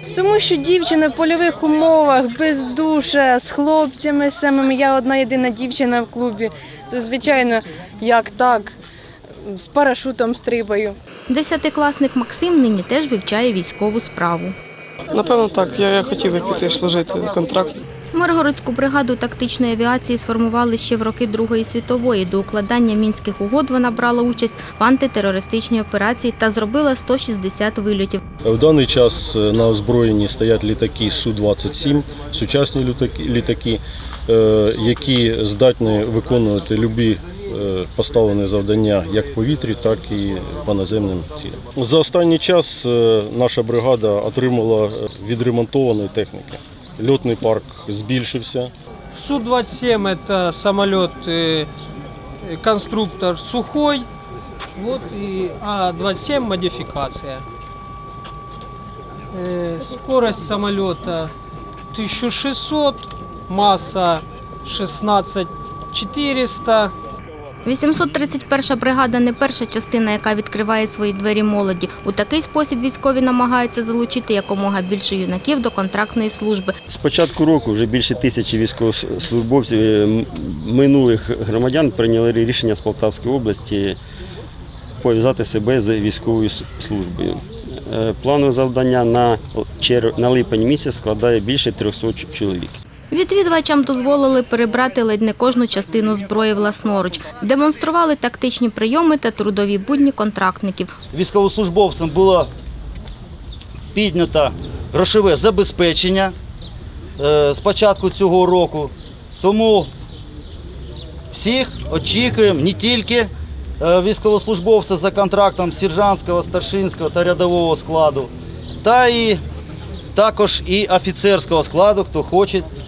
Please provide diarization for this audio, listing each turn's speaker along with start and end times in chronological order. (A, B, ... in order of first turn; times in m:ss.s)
0:00.1-0:08.8 A
0:09.4-0:11.0 A
0:11.3-0:14.6 B
0:15.1-0:17.7 C
0:18.1-0:28.2 B
0:28.4-0:48.7 D
0:49.1-0:51.7 E
0:52.4-0:54.1 E
0:54.8-0:57.4 E
0:59.3-1:01.3 E
1:01.9-1:06.9 E
1:07.6-1:16.7 B
1:16.9-1:24.0 F
1:25.0-1:32.8 F
1:33.1-1:40.9 B
1:41.1-1:42.5 G
1:43.9-1:46.3 G
1:47.2-1:49.9 G
1:51.3-1:59.4 G
2:00.1-2:02.7 G